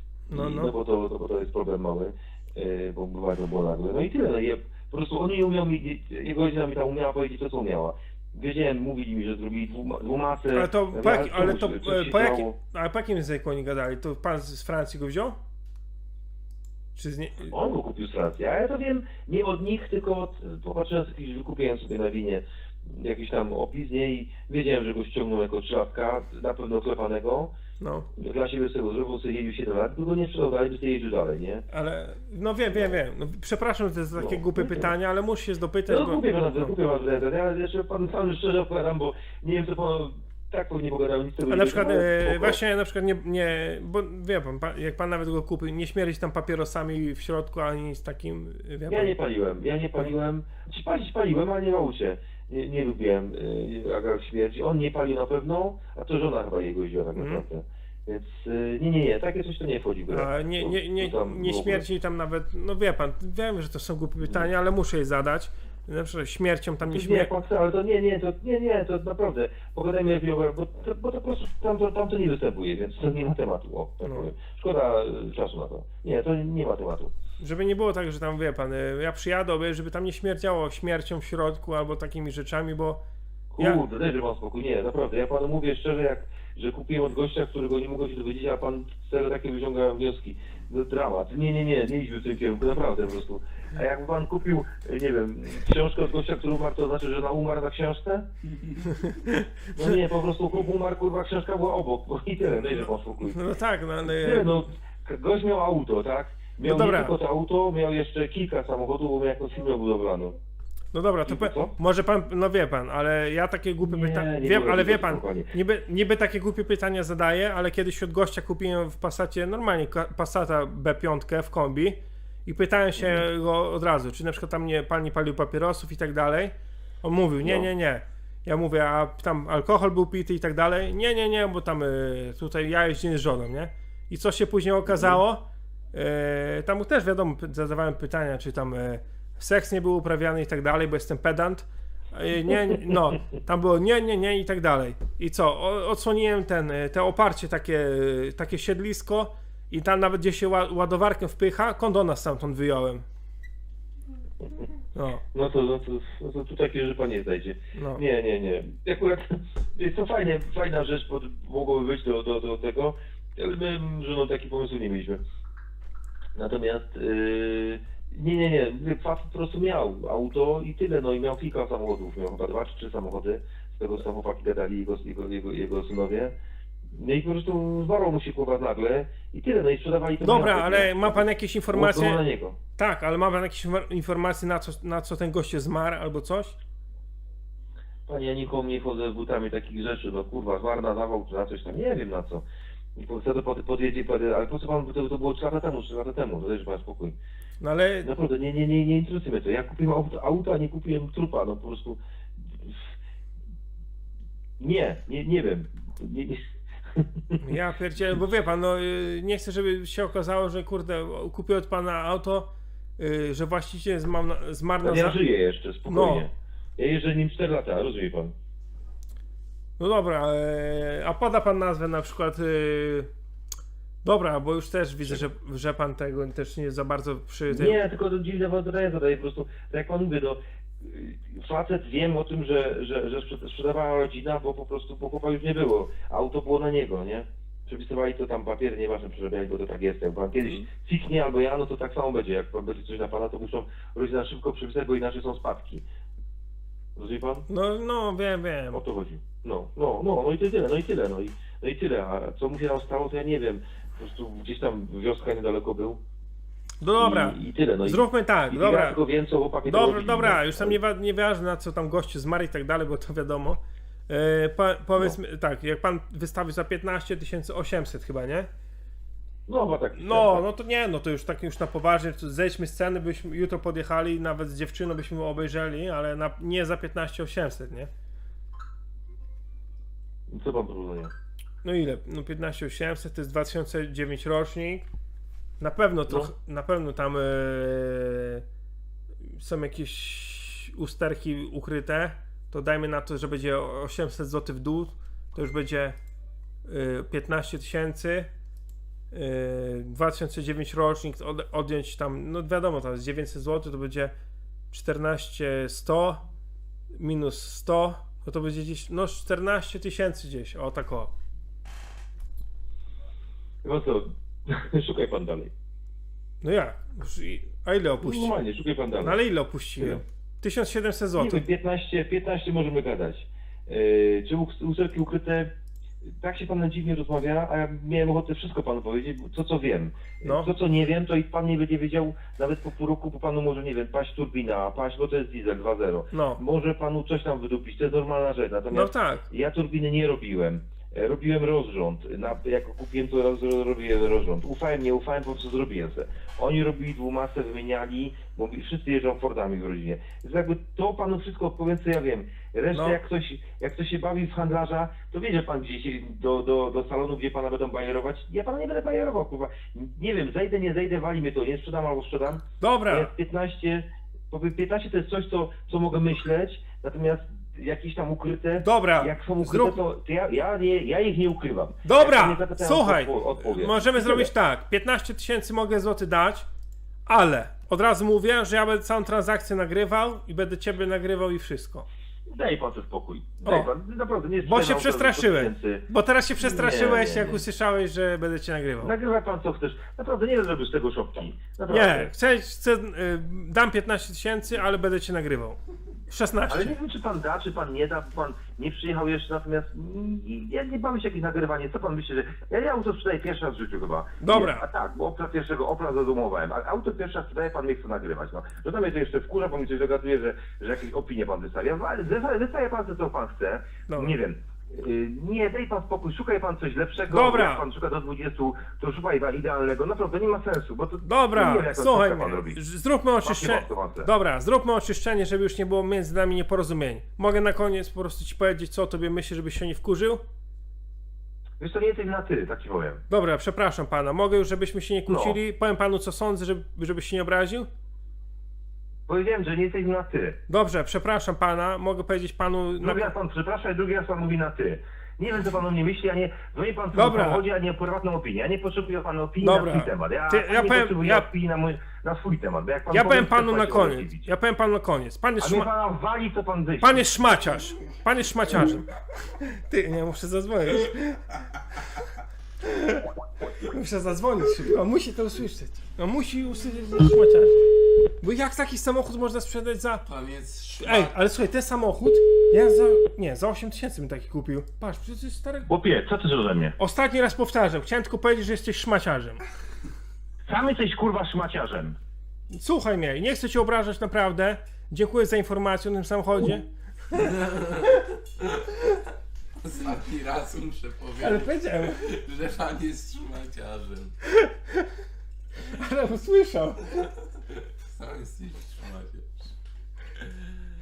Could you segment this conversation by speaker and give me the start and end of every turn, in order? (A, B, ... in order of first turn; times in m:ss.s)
0:00.3-0:00.7 A
0:00.3-0:12.5 B
0:10.5-0:15.4 A
0:16.9-0:17.5 A
0:17.5-0:27.5 B
0:27.8-0:28.1 A
0:28.2-0:31.6 B
0:31.7-0:36.7 A
0:34.1-0:34.9 B
0:35.9-0:42.6 B
0:41.5-0:49.1 A
0:48.9-1:01.8 B
0:57.2-0:57.4 A
1:00.1-1:07.3 A
1:04.2-1:04.5 B
1:06.8-1:17.1 B
1:14.0-1:14.3 A
1:17.4-1:23.0 A
1:23.5-1:38.2 B
1:39.0-1:40.0 A
1:39.8-1:43.4 B
1:43.2-1:44.5 A
1:44.0-1:50.4 B
1:46.6-1:47.1 A
1:50.9-2:33.0 A
1:51.2-1:51.7 B
1:53.8-1:55.5 B
2:03.0-2:03.2 B
2:07.4-2:07.7 B
2:14.9-2:15.2 B
2:34.9-2:35.2 A
2:35.3-2:45.2 B
2:37.8-2:38.0 A
2:46.3-2:56.3 B
2:56.9-3:02.6 B
3:00.2-3:02.2 A
3:02.8-3:06.6 A
3:08.1-3:12.4 B
3:13.0-3:17.2 B
3:17.6-3:18.1 A
3:18.0-3:22.0 B
3:22.5-3:22.9 B
3:24.6-3:26.4 B
3:26.9-3:27.4 B
3:27.4-3:35.2 A
3:34.8-3:38.3 B
3:35.9-3:36.2 A
3:39.8-3:43.1 A
3:44.0-3:47.8 A
3:47.5-4:05.8 B
4:07.0-4:07.4 B
4:07.5-4:08.8 A
4:08.7-4:16.0 B
4:16.8-4:19.0 A
4:17.0-4:20.8 B
4:19.6-4:28.5 A
4:29.5-4:30.4 B
4:29.9-4:37.9 A
4:40.3-4:41.1 B
4:41.6-4:44.9 A
4:45.6-4:48.4 A
4:49.3-4:56.0 A
4:56.7-4:58.3 A
4:59.1-5:04.1 A
5:04.7-5:06.2 A
5:07.0-5:11.1 A
5:13.6-5:15.5 B
5:16.4-5:18.4 A
5:18.0-5:19.2 B
5:19.0-5:21.4 A
5:19.8-5:20.0 B
5:21.2-5:25.5 B
5:26.0-6:14.3 B
5:30.2-5:30.5 A
5:36.1-5:36.4 A
5:38.7-5:39.2 A
5:52.7-5:53.0 A
6:02.6-6:03.1 A
6:08.6-6:09.8 A
6:11.8-6:16.4 A
6:17.1-6:21.8 A
6:22.3-6:25.8 B
6:24.4-6:28.9 A
6:26.4-6:27.4 B
6:28.8-6:32.1 B
6:31.7-6:35.6 A
6:36.1-6:36.7 A
6:36.5-7:02.6 B
6:44.2-6:44.7 A
6:53.9-6:54.1 A
6:57.1-6:57.6 A
7:01.0-7:10.2 A
7:03.2-7:04.1 B
7:11.6-7:13.0 B
7:13.1-7:17.7 A
7:15.1-7:15.4 B
7:19.1-7:20.4 B
7:20.5-7:23.1 A
7:22.8-7:34.3 B
7:26.9-7:27.4 A
7:29.4-7:31.3 A
7:32.9-7:35.7 A
7:35.4-7:37.1 B
7:36.8-7:42.1 A
7:42.6-7:47.6 A
7:48.2-7:50.0 A
7:50.1-7:51.2 C
7:50.8-7:55.7 A
7:55.7-7:56.7 B
7:56.8-7:59.4 A
8:00.5-8:02.0 B
8:02.5-8:06.7 A
8:07.2-8:08.8 C
8:09.6-8:14.2 C
8:11.2-8:12.0 A
8:14.4-8:14.8 A
8:15.6-8:17.0 A
8:17.8-8:19.5 C